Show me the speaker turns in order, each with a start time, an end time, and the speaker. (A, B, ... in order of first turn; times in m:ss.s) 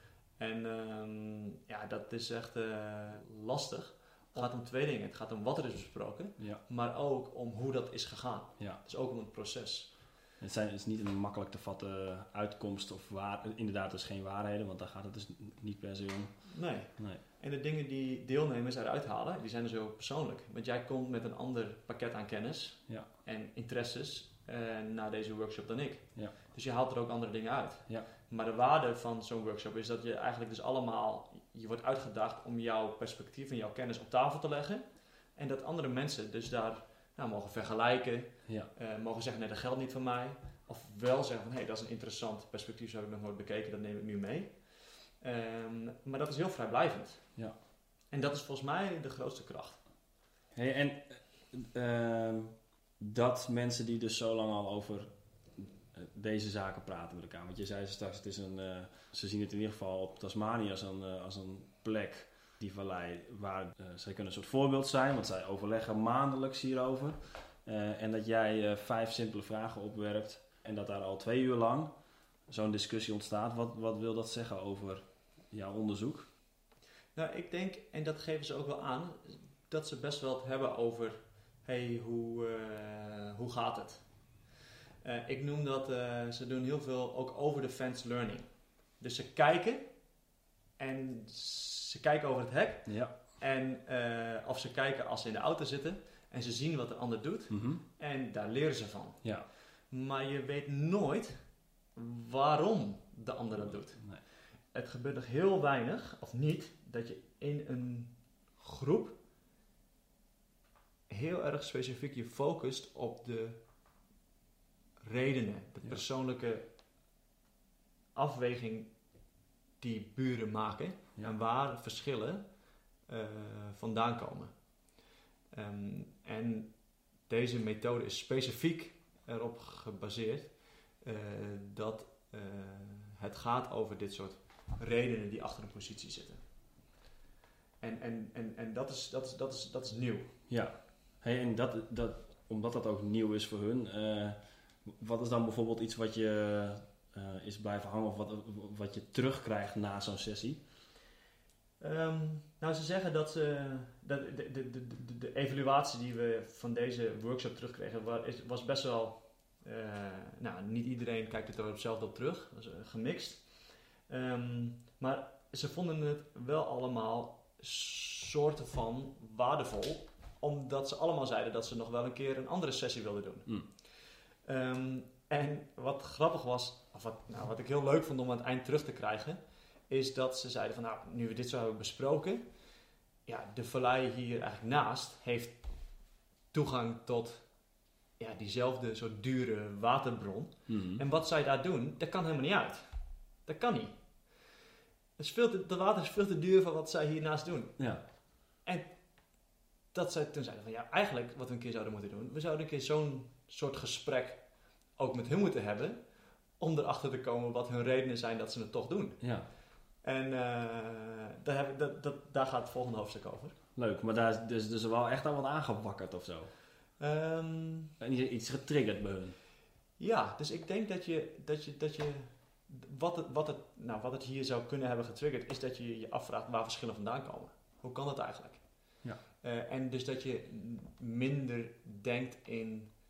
0:00.4-0:09.9 A
0:10.4-0:17.2 B
0:16.5-0:44.6 A
0:45.2-0:47.3 A
0:48.1-0:49.8 A
0:50.5-1:11.9 B
1:12.5-1:16.3 B
1:17.2-1:24.0 A
1:25.0-1:28.5 A
1:29.0-1:29.9 A
1:30.8-1:39.3 A
1:32.9-1:33.2 B
1:37.5-1:37.8 B
1:39.2-1:39.5 B
1:39.9-1:41.4 A
1:42.0-1:44.0 A
1:43.9-1:44.2 B
1:44.7-1:49.2 A
1:51.1-1:53.6 A
1:55.0-1:56.7 A
1:58.2-1:58.9 A
1:59.8-2:02.4 A
2:03.1-2:04.5 A
2:05.5-2:06.7 A
2:07.3-2:16.4 A
2:17.8-2:20.3 A
2:20.5-2:30.6 B
2:31.8-2:43.5 A
2:44.1-2:53.6 A
2:54.4-3:02.5 A
3:03.3-3:05.6 A
3:06.5-3:07.5 A
3:08.2-3:13.0 A
3:10.7-3:11.0 B
3:13.5-3:14.0 A
3:15.2-3:17.9 A
3:18.6-3:18.9 A
3:19.9-3:24.4 A
3:25.0-3:26.0 A
3:26.6-3:29.2 A
3:29.2-3:29.5 B
3:30.0-3:33.6 A
3:33.8-3:36.5 B
3:37.0-3:37.9 A
3:38.0-3:39.4 B
3:40.0-3:48.6 A
3:49.4-3:52.9 A